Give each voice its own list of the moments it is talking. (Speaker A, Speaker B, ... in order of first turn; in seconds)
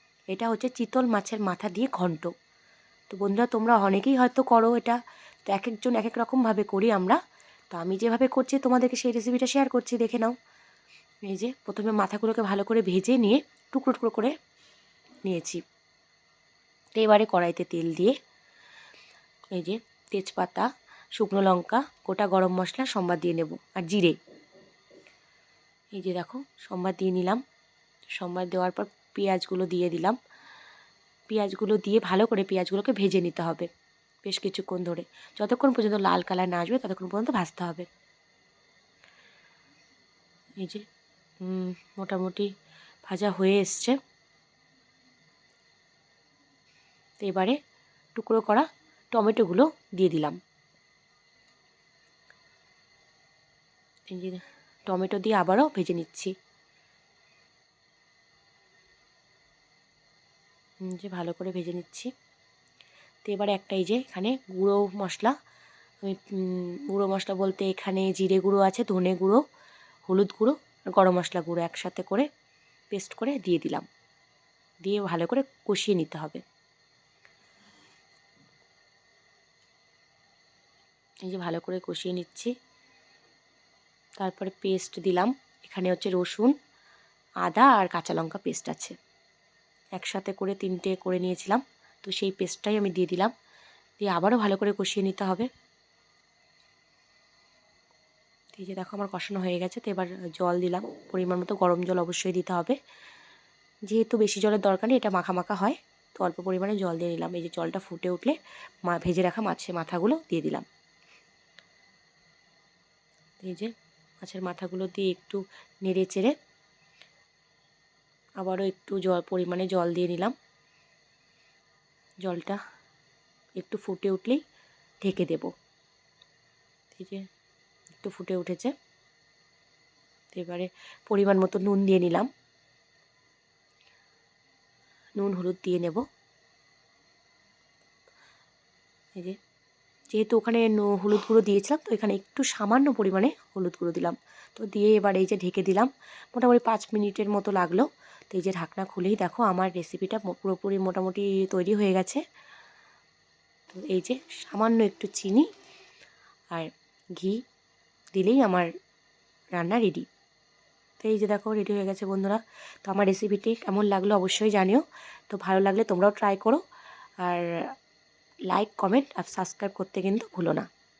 Speaker A: 0.3-2.3, 3.1-7.2, 7.7-10.3, 11.3-14.3, 15.3-15.6, 16.9-18.1, 19.5-24.2, 25.9-27.4, 28.1-30.2, 31.3-33.7, 34.2-37.9, 41.4-42.5, 43.1-44.0, 47.2-47.5, 48.1-50.4, 54.1-56.3, 60.9-62.1, 63.2-65.3, 66.0-69.4, 70.1-72.3, 72.9-73.8, 74.8-76.4, 81.2-82.5, 84.2-86.5, 87.4-88.9, 89.9-93.3, 94.0-95.5, 98.5-102.8, 103.9-110.6, 113.4-116.3, 118.4-120.3, 122.2-122.6, 123.6-124.4, 125.0-125.5, 126.9-127.2, 128.0-128.7, 130.3-132.3, 135.2-136.0, 140.1-152.2, 153.7-155.5, 156.5-157.4, 158.2-158.7, 159.6-160.1, 161.0-166.6, 167.2-167.6, 168.5-170.7